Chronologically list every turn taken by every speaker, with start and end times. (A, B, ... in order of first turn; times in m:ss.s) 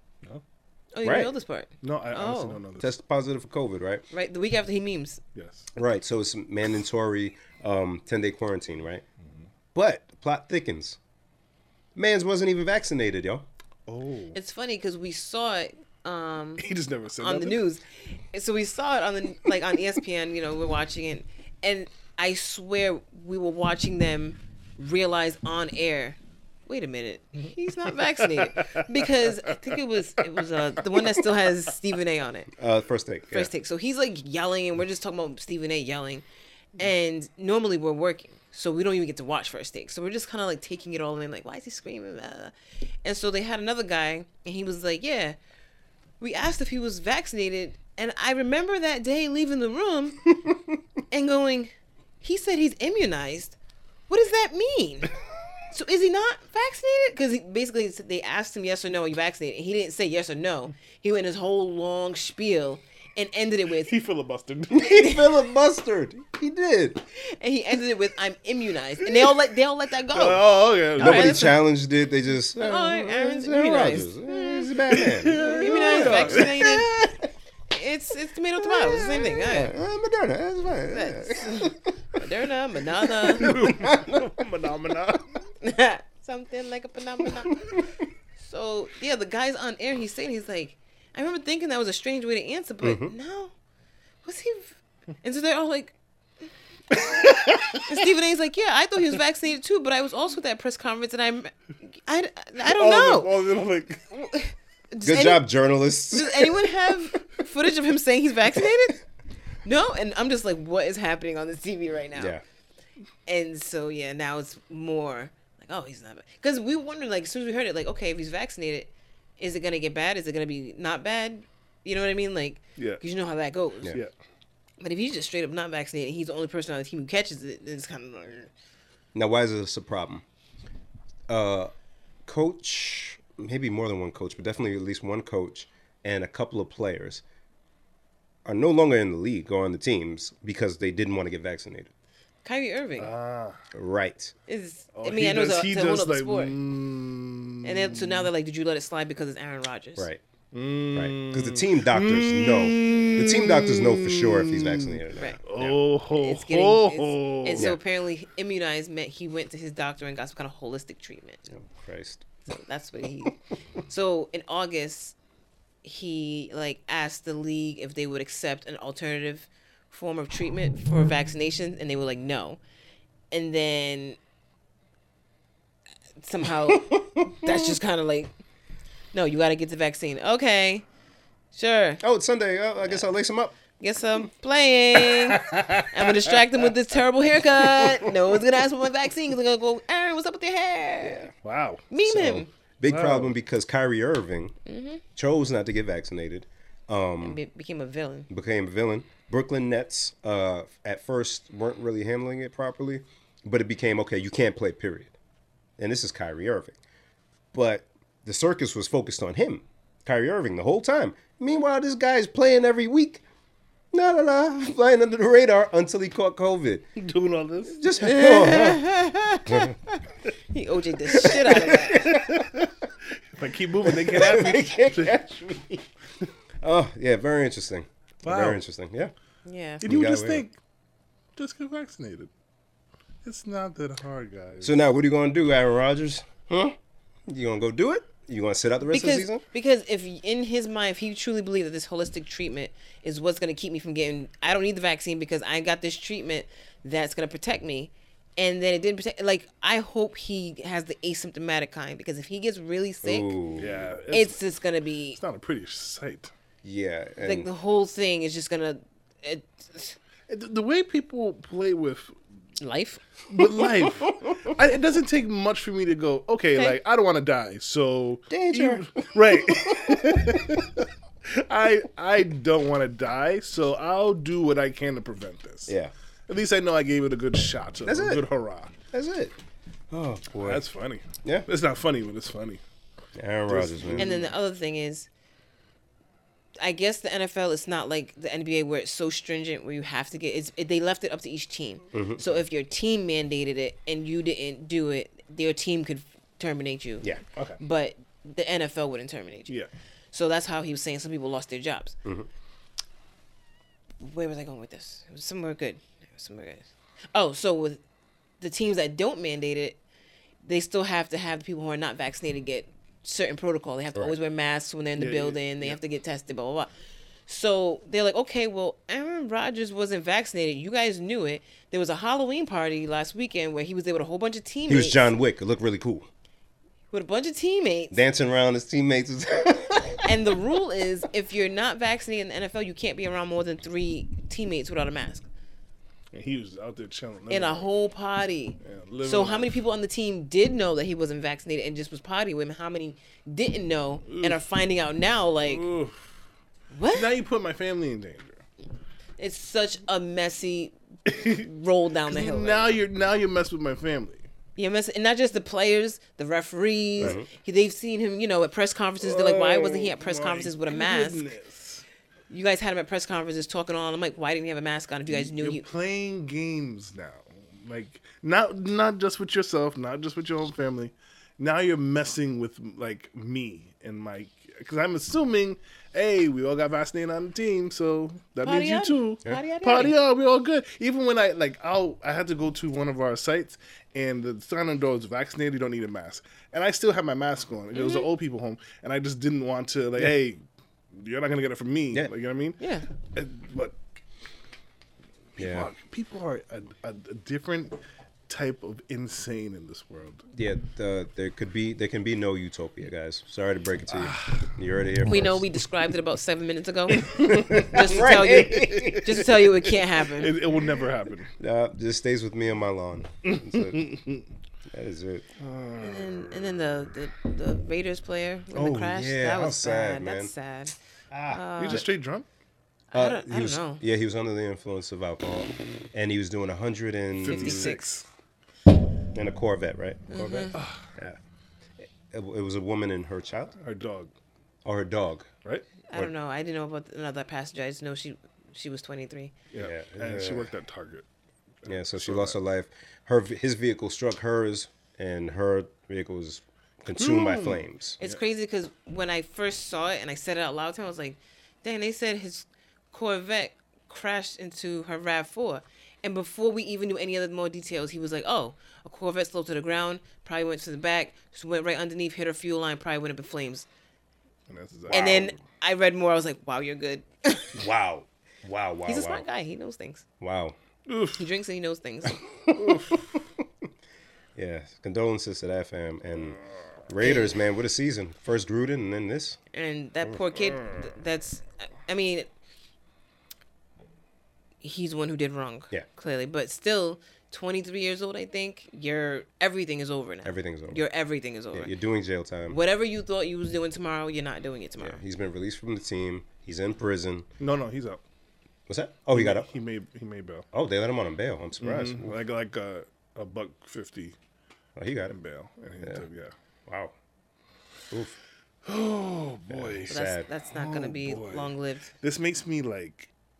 0:00.9-0:02.6 A
0:01.0-0:01.3 B
0:01.8-0:02.9 C
0:02.8-0:04.0 B
0:04.1-0:05.2 A
0:05.3-0:05.7 C
0:05.7-0:09.0 B
0:09.7-0:11.0 B
0:12.0-0:13.4 B
0:13.9-0:14.4 C
0:14.3-0:16.6 A
0:16.6-0:17.6 C
0:17.2-0:32.5 A
0:28.4-0:28.8 C
0:30.3-0:31.2 C
0:32.6-0:33.5 B
0:33.3-0:36.2 A
0:36.8-0:42.5 A
0:43.0-0:45.4 A
0:46.2-0:50.3 A
0:51.1-0:53.6 A
0:54.1-0:55.1 A
0:55.7-1:03.9 A
1:03.9-1:05.0 C
1:04.7-1:07.0 B
1:04.9-1:05.2 A
1:07.2-1:11.6 A
1:10.1-1:11.5 C
1:11.0-1:17.2 B
1:12.6-1:14.2 A
1:14.8-1:16.8 C
1:15.3-1:17.0 A
1:17.7-1:19.7 A
1:18.6-1:21.9 B
1:20.9-1:23.6 A
1:23.0-1:24.3 B
1:23.3-1:25.4 C
1:25.6-1:27.8 A
1:28.4-1:33.5 A
1:32.8-1:33.1 B
1:34.2-1:36.0 A
1:37.2-1:38.0 C
1:37.7-1:43.3 A
1:42.6-1:44.1 C
1:44.1-1:45.5 A
1:45.0-1:46.7 B
1:46.1-1:49.0 A
1:49.6-1:52.4 A
1:52.2-1:52.4 B
1:53.2-2:04.0 A
2:02.8-2:03.0 C
2:04.8-2:08.5 A
2:09.1-2:10.2 B
2:11.3-2:11.7 B
2:12.2-2:17.2 B
2:18.4-2:21.9 B
2:22.4-2:23.1 A
2:23.0-2:23.6 C
2:23.7-2:24.3 B
2:24.5-2:26.5 A
2:24.9-2:28.3 C
2:27.6-2:30.1 A
2:30.5-2:37.7 C
2:30.9-2:35.8 B
2:35.2-2:35.4 A
2:36.1-2:41.5 A
2:41.5-2:42.2 B
2:42.4-2:45.2 A
2:45.8-2:52.6 A
2:53.3-2:54.2 A
2:56.2-2:58.3 A
2:56.8-2:57.8 B
2:59.1-3:00.8 A
3:01.5-3:02.0 A
3:02.0-3:03.6 B
3:03.8-3:11.3 A
3:05.1-3:06.4 C
3:11.0-3:11.3 B
3:11.4-3:11.8 C
3:11.9-3:12.5 A
3:12.0-3:14.5 B
3:12.8-3:13.3 C
3:14.6-3:15.0 A
3:15.2-3:17.4 B
3:17.2-3:18.3 A
3:18.3-3:25.1 B
3:25.8-3:26.8 B
3:27.5-3:33.2 B
3:33.9-3:36.8 B
3:37.0-3:37.8 C
3:37.7-3:38.8 B
3:38.0-3:39.8 A
3:39.4-3:39.8 B
3:40.5-3:42.1 A
3:41.1-3:42.4 B
3:42.0-3:42.7 C
3:43.3-3:45.2 C
3:43.8-3:45.8 B
3:46.6-3:49.1 B
3:48.2-3:48.6 C
3:49.4-3:49.8 A
3:49.8-3:50.4 B
3:49.8-3:50.6 C
3:51.4-3:52.3 C
3:53.2-3:54.8 C
3:54.6-3:56.8 B
3:57.3-3:59.4 B
3:58.9-4:13.4 A
4:13.0-4:13.9 B
4:13.6-4:14.4 C
4:14.1-4:15.2 A
4:15.2-4:16.3 C
4:16.6-4:17.5 B
4:17.2-4:20.0 A
4:20.3-4:22.1 C
4:22.6-4:23.0 A
4:23.3-4:35.7 C
4:28.3-4:30.6 B
4:35.7-4:35.9 B
4:36.3-4:38.7 C
4:37.8-4:38.2 B
4:38.9-4:39.3 B
4:39.9-4:40.6 B
4:40.4-4:42.6 C
4:43.2-4:44.1 B
4:43.5-4:44.3 C
4:44.0-4:45.1 A
4:46.6-4:59.5 A
4:51.9-4:52.2 B
5:00.1-5:01.9 A
5:04.0-5:07.8 A
5:08.4-5:09.8 A
5:10.4-5:16.7 A
5:15.0-5:15.8 C
5:17.3-5:25.1 A
5:24.7-5:26.1 B
5:26.9-5:28.0 A
5:27.9-5:30.1 B
5:30.0-5:35.3 A
5:36.1-5:37.7 C
5:37.3-5:45.6 A
5:38.6-5:39.6 C
5:44.1-5:44.4 C
5:45.4-5:46.1 C
5:46.7-5:47.1 A
5:46.9-5:48.4 C
5:49.2-5:52.8 A
5:51.1-5:51.4 C
5:52.1-5:54.2 C
5:54.6-6:01.2 A
5:57.0-5:57.3 B
5:59.0-6:01.8 C
6:02.3-6:05.6 A
6:05.1-6:30.4 C
6:18.4-6:19.9 A
6:27.7-6:28.0 A
6:30.9-6:32.6 C
6:32.6-6:32.8 A
6:33.1-6:33.8 C
6:35.4-6:37.8 C
6:35.4-6:35.7 B
6:38.3-6:40.2 C
6:40.3-6:45.4 B
6:43.9-6:44.5 C
6:45.0-6:50.4 A
6:47.1-6:47.8 C
6:47.1-6:49.3 B
6:50.2-6:51.3 C
6:51.4-6:53.8 B
6:53.2-6:54.2 C
6:54.7-6:55.2 B
6:55.4-6:56.7 C
6:55.8-7:00.7 A
6:58.5-7:00.3 B
7:01.1-7:01.8 B
7:01.3-7:01.8 A
7:01.6-7:02.3 C
7:02.9-7:03.8 A
7:02.9-7:07.7 B
7:07.2-7:08.0 C
7:07.2-7:07.9 A
7:09.1-7:11.2 B
7:10.1-7:10.6 A
7:10.5-7:10.9 C
7:12.1-7:13.6 B
7:13.6-7:14.1 C
7:14.6-7:15.3 B
7:15.9-7:19.3 A
7:19.5-7:21.0 C
7:19.6-7:20.5 B
7:21.6-7:22.4 C
7:21.7-7:28.0 B
7:27.0-7:28.2 C
7:28.0-7:43.7 A
7:44.5-7:45.3 C
7:44.9-7:45.3 B
7:44.9-7:47.6 A
7:47.5-7:49.2 B
7:48.9-7:50.0 A
7:50.2-7:50.6 B
7:50.8-7:51.3 C
7:51.2-7:52.2 A
7:52.3-7:53.4 B
7:52.5-7:53.0 C
7:54.4-7:59.4 B
7:57.0-7:57.4 A
7:59.5-8:02.3 A
8:04.6-8:11.7 A
8:10.2-8:10.8 B
8:11.5-8:12.6 B
8:12.5-8:15.0 A
8:14.8-8:17.3 B
8:17.4-8:18.0 C
8:18.7-8:19.5 B
8:19.1-8:20.4 C
8:20.5-8:22.1 B
8:21.6-8:24.2 C
8:24.8-8:25.1 B
8:25.1-8:26.3 C
8:26.7-8:26.9 B
8:27.9-8:28.2 B
8:28.6-8:33.1 C
8:29.5-8:30.2 B
8:29.9-8:31.9 A